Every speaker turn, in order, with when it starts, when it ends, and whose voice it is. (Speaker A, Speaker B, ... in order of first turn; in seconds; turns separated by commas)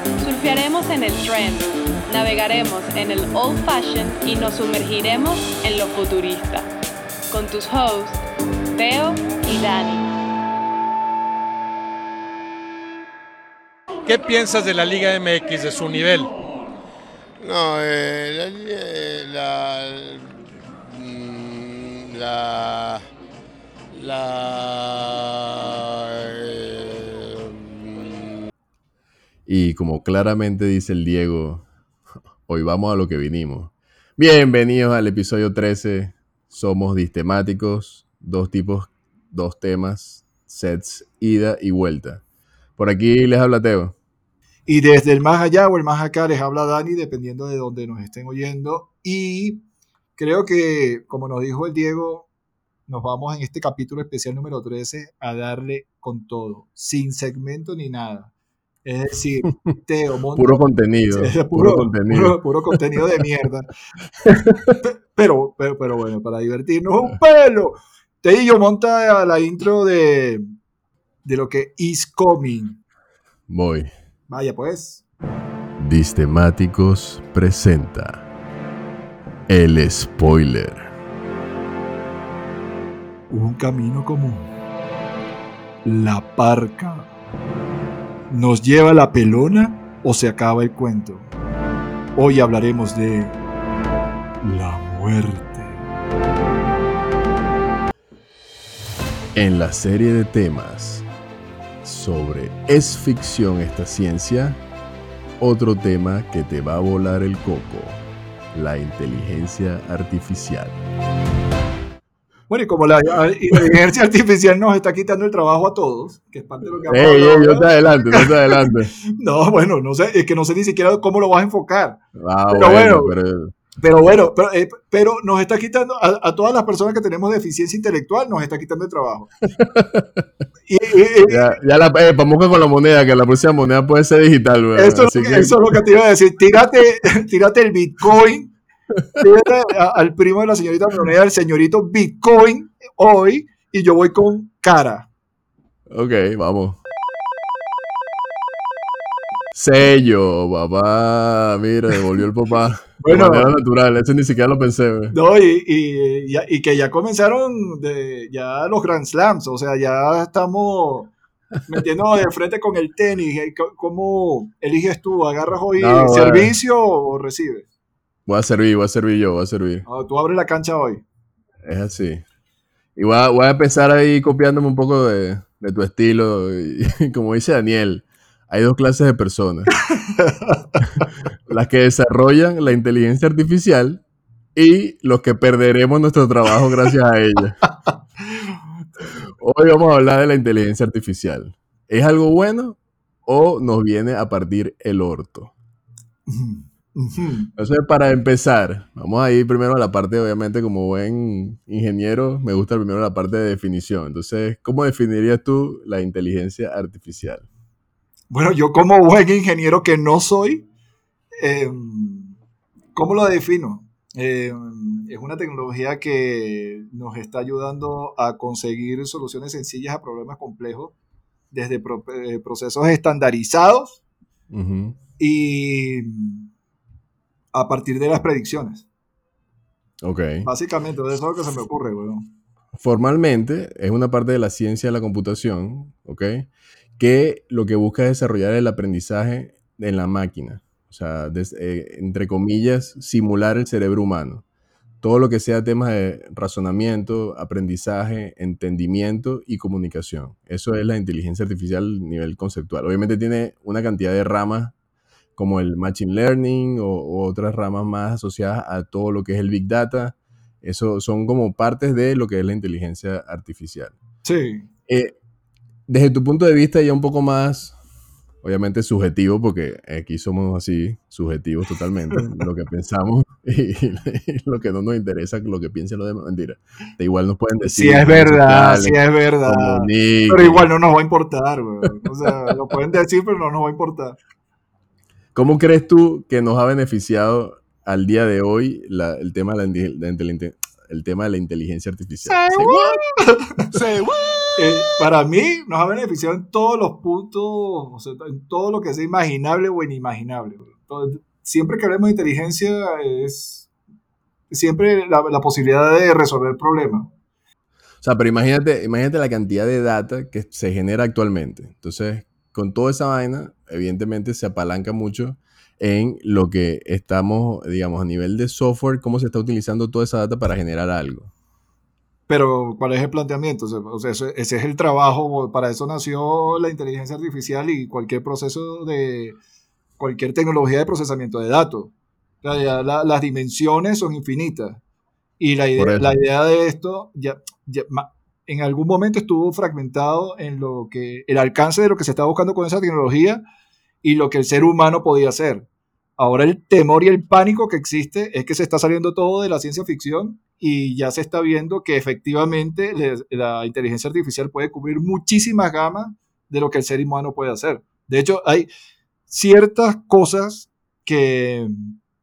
Speaker A: 0.2-6.7, Speaker A: 7.3-8.2, Speaker A: 8.8-10.1, Speaker B: 14.1-16.3, Speaker C: 17.4-20.2, Speaker C: 20.8-23.0, Speaker C: 23.9-28.2, Speaker D: 29.5-31.7, Speaker D: 32.5-42.2, Speaker D: 42.8-44.0, Speaker E: 44.7-49.6, Speaker E: 50.2-52.3, Speaker E: 52.9-58.3, Speaker E: 58.8-63.7, Speaker D: 60.4-62.4, Speaker D: 64.2-64.8, Speaker E: 64.8-70.4, Speaker E: 71.2-72.8, Speaker D: 73.5-73.9, Speaker E: 74.3-75.0, Speaker D: 75.8-78.2, Speaker D: 79.5-80.9, Speaker E: 83.3-84.5, Speaker E: 85.8-87.1, Speaker E: 88.3-91.3, Speaker E: 92.2-93.4, Speaker E: 94.4-95.8, Speaker D: 99.3-101.1, Speaker D: 101.8-104.6, Speaker D: 105.4-108.0, Speaker D: 108.5-110.8, Speaker E: 112.5-122.0, Speaker D: 116.9-118.9, Speaker D: 122.2-123.5, Speaker E: 122.5-123.2, Speaker E: 123.8-129.3, Speaker D: 129.6-130.2, Speaker E: 130.7-131.6, Speaker D: 131.3-135.6, Speaker E: 134.8-138.6, Speaker E: 139.2-145.1, Speaker D: 145.9-146.8, Speaker D: 149.5-155.2, Speaker E: 153.0-153.6, Speaker E: 155.1-161.1, Speaker E: 161.7-167.7, Speaker D: 165.8-166.6, Speaker D: 168.3-169.8, Speaker E: 169.9-171.0, Speaker D: 171.6-172.2, Speaker D: 173.0-179.7, Speaker E: 180.1-180.8, Speaker D: 180.8-184.0, Speaker D: 184.6-187.6, Speaker E: 188.3-188.6, Speaker D: 189.4-195.5, Speaker E: 196.3-197.5, Speaker D: 197.6-207.5, Speaker E: 208.3-210.7, Speaker E: 211.4-212.4, Speaker E: 212.9-220.9, Speaker E: 221.5-224.0, Speaker D: 224.5-225.0, Speaker E: 225.2-226.5, Speaker E: 227.5-228.9, Speaker D: 230.0-230.5, Speaker E: 230.4-232.3, Speaker D: 232.8-244.4, Speaker D: 245.0-254.7, Speaker D: 255.4-264.0, Speaker E: 264.2-264.7, Speaker D: 264.9-265.1, Speaker D: 265.9-267.8, Speaker D: 268.4-280.7, Speaker E: 277.6-284.2, Speaker D: 285.4-293.0, Speaker E: 292.3-303.7, Speaker E: 304.5-307.1, Speaker D: 308.0-321.3, Speaker E: 322.3-329.4, Speaker E: 330.0-334.8, Speaker E: 335.4-343.4, Speaker D: 335.8-336.2, Speaker E: 344.0-358.7, Speaker E: 359.3-361.9